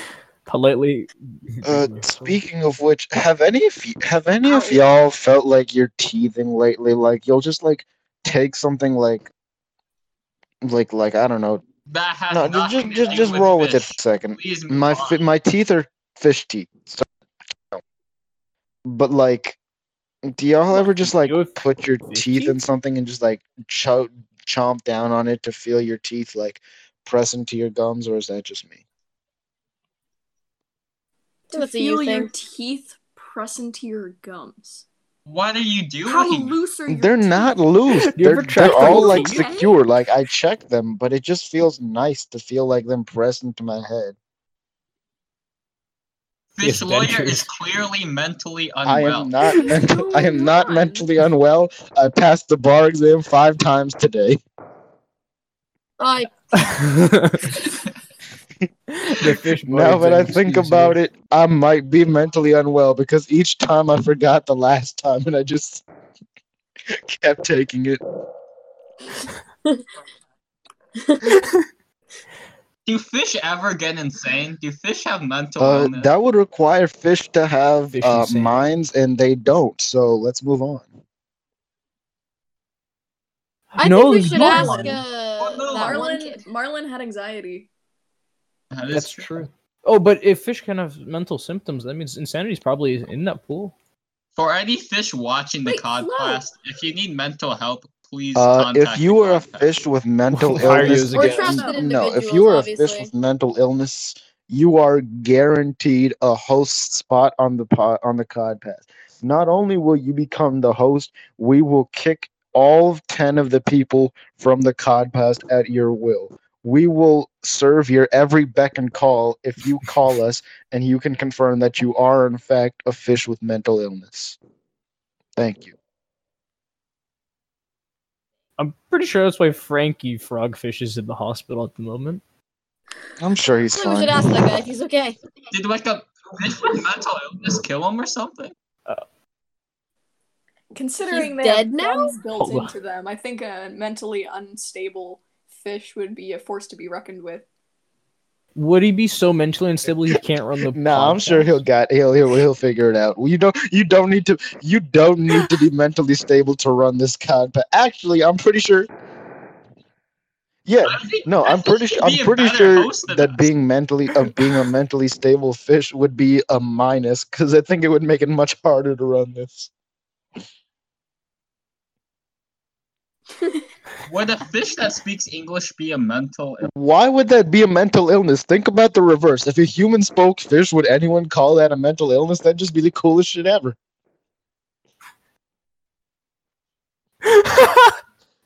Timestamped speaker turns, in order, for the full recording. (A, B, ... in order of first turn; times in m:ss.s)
0:00.4-0:02.4 A
0:01.6-0:09.3 B
0:04.4-0:04.8 C
0:10.6-0:11.6 B
0:11.9-0:15.3 D
0:12.3-0:17.1 B
0:18.8-0:19.6 B
0:20.2-0:28.8 B
0:20.7-0:22.6 A
0:31.5-0:34.8 C
0:31.5-0:32.3 E
0:35.2-0:36.6 D
0:36.0-0:37.6 C
0:36.9-0:44.2 B
0:37.9-0:39.5 A
0:38.5-0:39.8 C
0:46.5-0:49.3 D
0:46.6-0:47.5 A
0:48.8-0:54.4 B
0:49.5-0:51.1 C
0:56.0-0:56.6 E
0:56.5-0:57.6 A
0:58.9-1:01.0 A
0:59.2-1:05.8 B
1:06.9-1:08.0 B
1:12.8-1:16.1 D
1:15.6-1:20.9 B
1:17.9-1:18.6 A
1:23.7-1:25.0 A
1:23.8-1:26.4 E
1:24.4-1:25.0 C
1:25.4-1:26.0 D
1:25.7-1:27.7 C
1:28.7-1:29.3 D
1:28.9-1:33.7 A
1:34.4-1:39.8 D
1:35.6-1:36.5 C
1:38.3-2:04.4 B
1:40.3-1:41.7 A
1:41.1-1:41.9 C
1:41.1-1:43.1 E
2:05.4-2:05.8 B
2:08.6-2:12.2 A
2:13.2-2:14.5 B
2:13.7-2:15.2 E
2:15.5-2:18.5 D
2:20.7-2:27.4 C
2:21.0-2:22.2 E
2:22.4-2:22.7 A
2:28.6-2:31.6 A
2:30.6-2:38.9 B
2:40.6-2:49.7 B
2:40.8-2:43.5 D
2:54.0-2:56.7 D
2:56.6-3:03.8 B
3:07.2-3:07.9 A